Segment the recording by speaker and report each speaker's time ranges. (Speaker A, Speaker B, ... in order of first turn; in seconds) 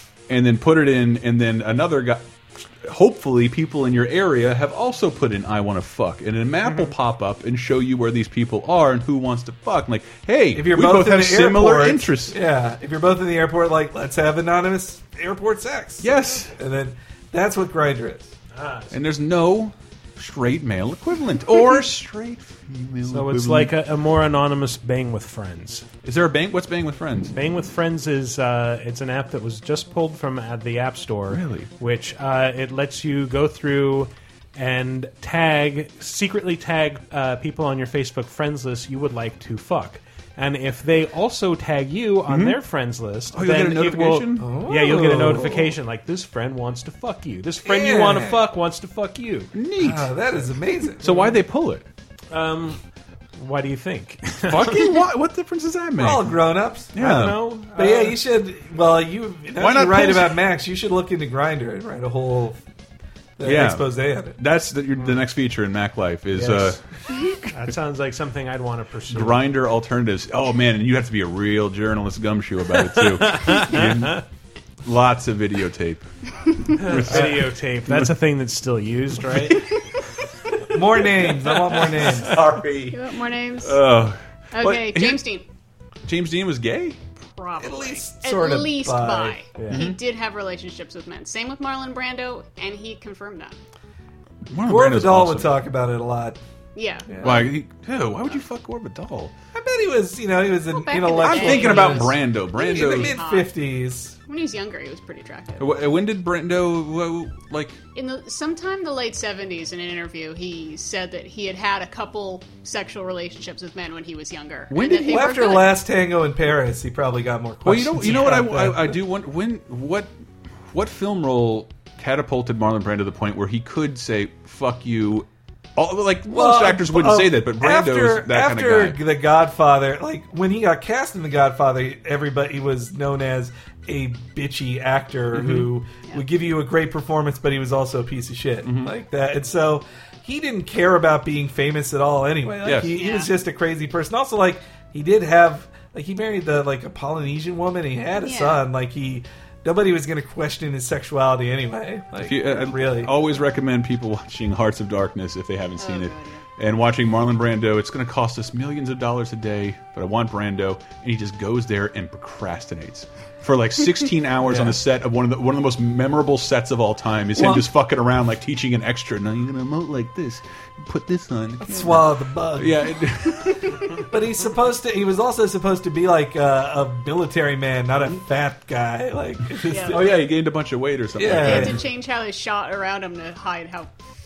Speaker A: 0.3-12.4, 16.0-16.6, 18.9-23.7, 26.0-27.3, 31.3-31.7, 42.3-42.6, 43.3-44.5, 49.5-50.1, 51.0-51.8, 54.5-56.4, 56.9-57.5, 59.6-60.4, 63.4-66.8, 69.1-74.2, 74.8-76.1, 76.7-78.1, 79.3-79.7, 82.0-83.0, 83.6-85.2, 86.0-87.0, 89.7-90.0, 94.5-95.6, 97.2-99.3, 101.2-103.2, 105.6-107.8, 114.7-115.4, 117.7-120.1, 120.7-129.0, 135.3-135.7, 138.6-138.9, 142.6-142.9, 152.2-173.9, 179.8-181.8
Speaker B: 10.5-18.3, 44.4-45.7, 47.6-48.4, 49.8-51.0, 56.0-57.0, 57.8-62.6, 63.4-64.4, 77.1-77.4, 80.7-82.4, 87.6-89.4, 94.7-96.4, 97.1-97.5, 99.5-104.2, 115.1-119.0, 126.3-153.1, 164.4-164.8, 167.4-167.7, 171.6-173.0, 173.9-180.2, 181.2-181.8
Speaker C: 18.5-18.9, 23.1-25.9, 27.3-49.5, 51.1-51.3, 52.3-52.8, 53.4-54.9, 57.0-58.2, 66.3-66.8, 67.5-69.5, 73.0-74.2, 76.8-79.6, 89.6-89.8
Speaker D: 82.9-83.8, 84.5-85.5, 87.4-93.6, 96.8-97.1, 100.7-103.5, 104.3-105.8, 108.0-115.7, 143.0-143.3, 148.2-148.6, 155.8-156.4, 179.7-180.1, 181.2-183.9